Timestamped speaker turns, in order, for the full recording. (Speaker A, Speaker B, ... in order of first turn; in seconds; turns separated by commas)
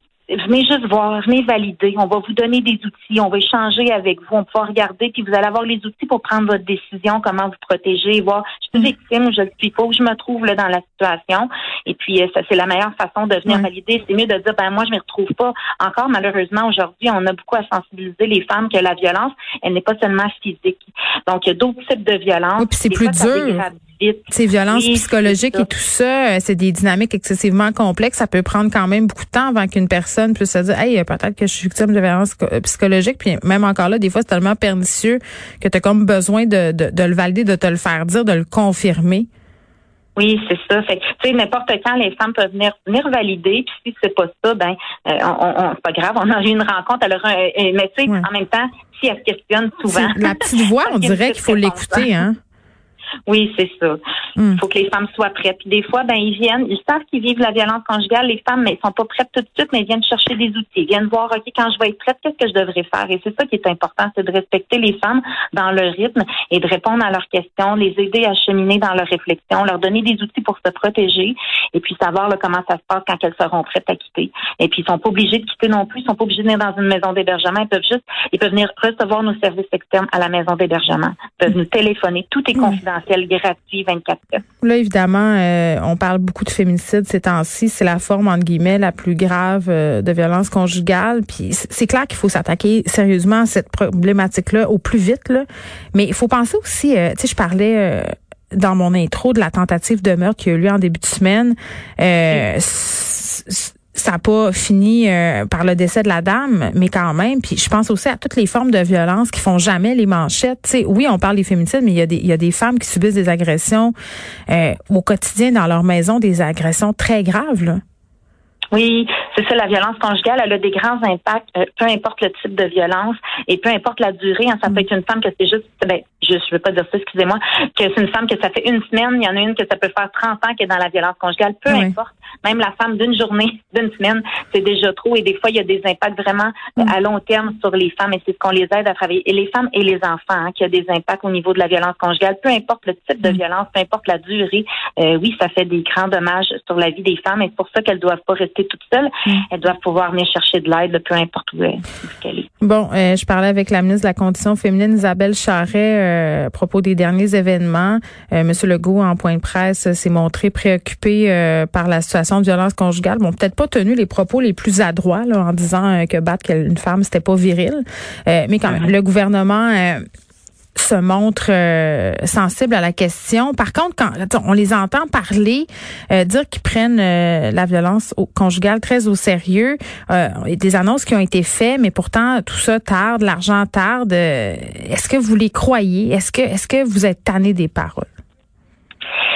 Speaker A: 0.3-25.7, Speaker B: 22.6-23.6, Speaker B: 24.3-39.3, Speaker A: 40.1-52.1, Speaker B: 49.9-52.4, Speaker A: 53.3-54.0, Speaker A: 54.5-84.4, Speaker B: 82.5-82.8, Speaker B: 84.6-113.9, Speaker B: 114.5-117.8, Speaker A: 118.7-152.5, Speaker B: 131.7-131.9, Speaker B: 152.6-170.0, Speaker B: 170.8-188.1